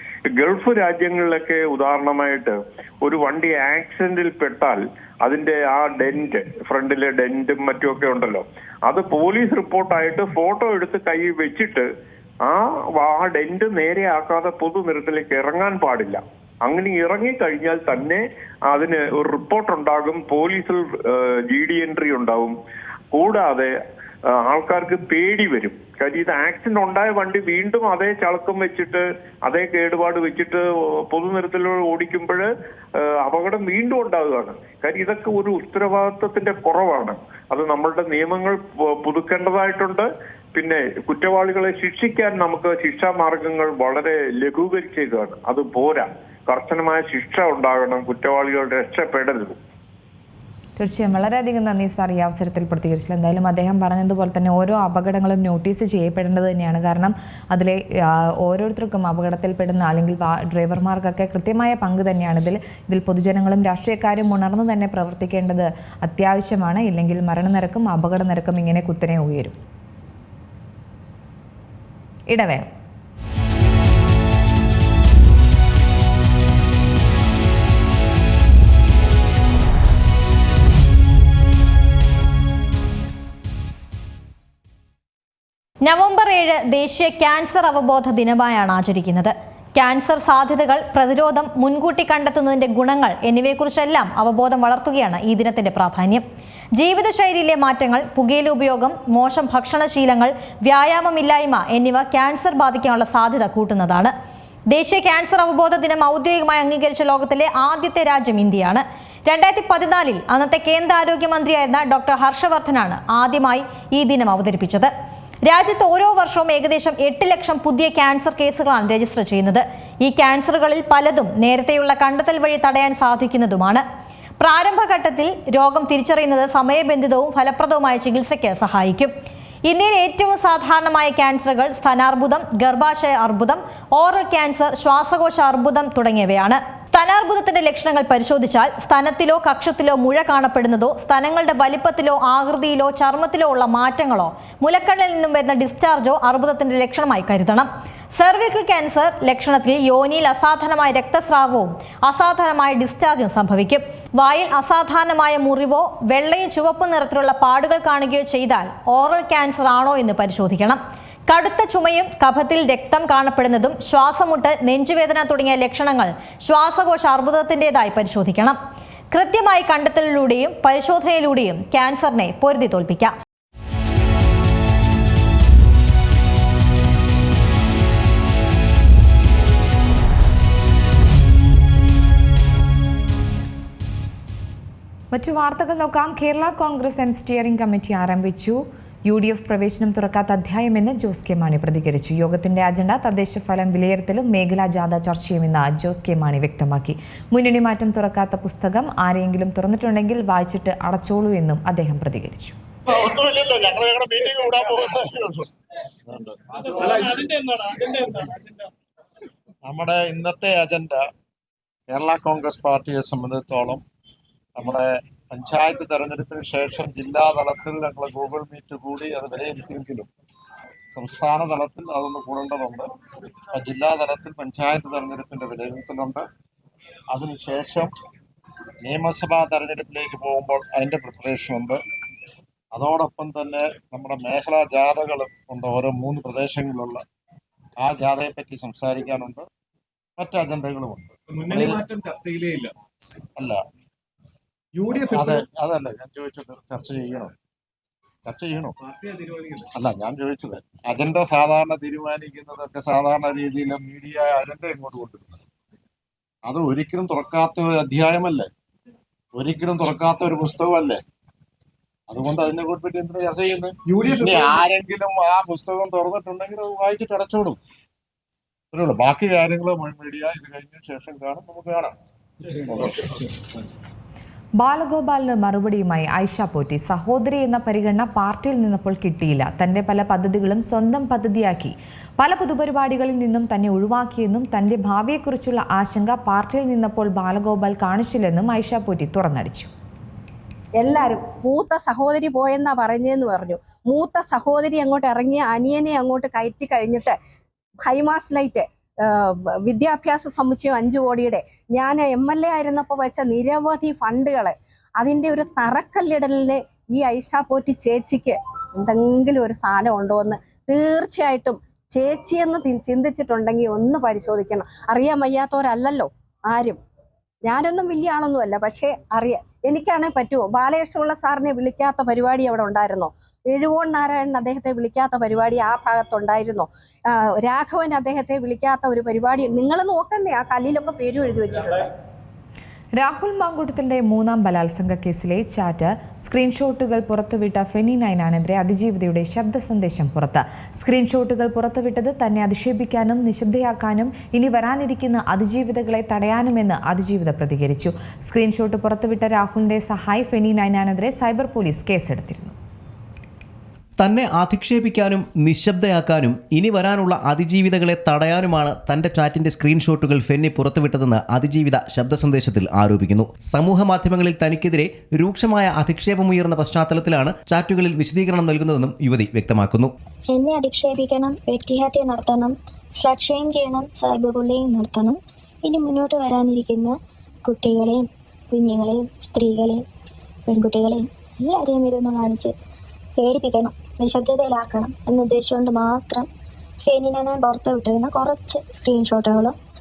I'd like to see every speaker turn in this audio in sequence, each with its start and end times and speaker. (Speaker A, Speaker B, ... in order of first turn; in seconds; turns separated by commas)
Speaker A: 0.3-11.9, Speaker A: 12.4-22.6, Speaker A: 23.1-23.7, Speaker A: 24.3-49.6, Speaker B: 50.8-69.6, Speaker B: 72.3-72.7, Speaker C: 85.8-96.2, Speaker C: 96.8-104.1, Speaker C: 104.7-114.9, Speaker C: 115.4-123.8, Speaker C: 124.4-129.1, Speaker C: 129.7-168.6, Speaker C: 169.1-173.1, Speaker B: 185.1-202.6, Speaker D: 202.9-205.5, Speaker D: 206.1-207.3, Speaker E: 206.5-208.6, Speaker D: 209.6-211.0, Speaker D: 211.9-213.8, Speaker D: 214.6-220.1, Speaker D: 220.9-222.9, Speaker D: 223.5-226.2, Speaker D: 227.1-227.9, Speaker D: 228.8-231.8, Speaker D: 232.7-237.0, Speaker D: 237.8-239.5, Speaker D: 240.2-241.8, Speaker E: 241.3-242.7, Speaker E: 244.8-245.4, Speaker D: 245.1-247.3, Speaker D: 248.2-248.8, Speaker E: 248.8-249.7, Speaker D: 249.7-255.4, Speaker D: 256.5-258.5, Speaker D: 259.4-261.0, Speaker D: 262.1-267.6, Speaker E: 263.9-264.6, Speaker D: 268.7-271.9, Speaker D: 272.7-273.2, Speaker B: 274.6-289.7, Speaker F: 290.8-297.2, Speaker F: 297.8-316.8, Speaker F: 317.4-331.9, Speaker B: 332.9-352.5, Speaker G: 354.0-369.9, Speaker H: 370.3-379.8, Speaker H: 380.5-382.5, Speaker H: 383.2-386.3, Speaker H: 386.8-389.6